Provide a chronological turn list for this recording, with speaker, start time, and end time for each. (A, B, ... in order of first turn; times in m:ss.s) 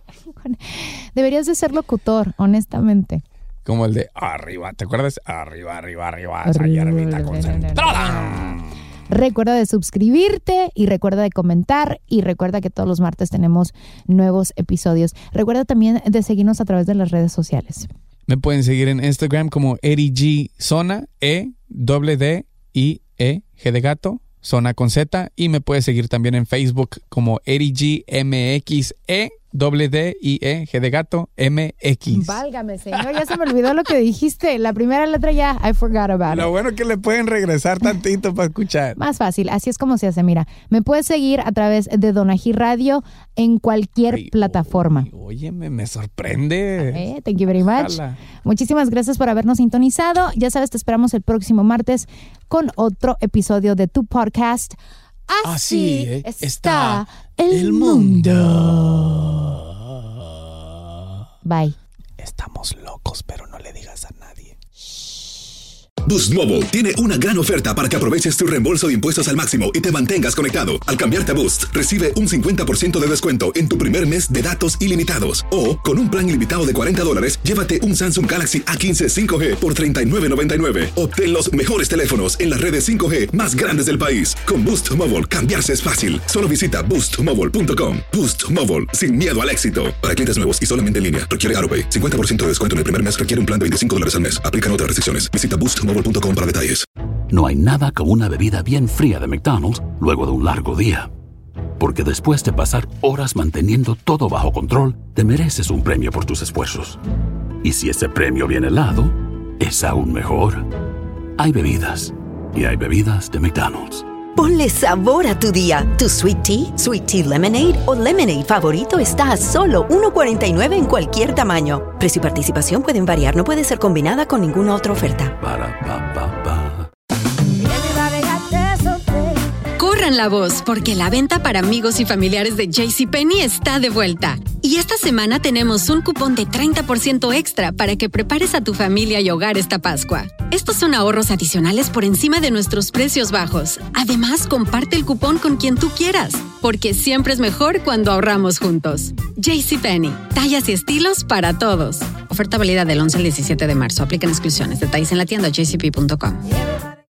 0:00.4-0:03.2 A
0:03.6-0:08.7 B
0:06.4-0:08.6 A
0:09.1-0:17.9 A
0:18.3-0:32.4 B
0:32.1-0:36.5 A
0:32.9-0:33.2 B
0:36.3-0:39.0 B
0:39.0-0:45.1 A
0:44.1-0:47.1 B
0:46.8-0:54.8 A
0:47.7-0:48.2 B
0:55.3-0:58.5 A
0:55.4-1:00.3 B
1:01.4-1:01.8 A
1:02.2-1:04.5 B
1:04.8-1:05.4 A
1:06.0-1:36.8 C
1:37.3-1:41.1 D
1:41.8-1:47.0 D
1:47.6-1:50.7 D
1:51.4-1:54.0 D
1:54.4-2:05.3 E
2:05.4-2:06.9 D
2:07.7-2:09.2 E
2:09.8-2:36.5 F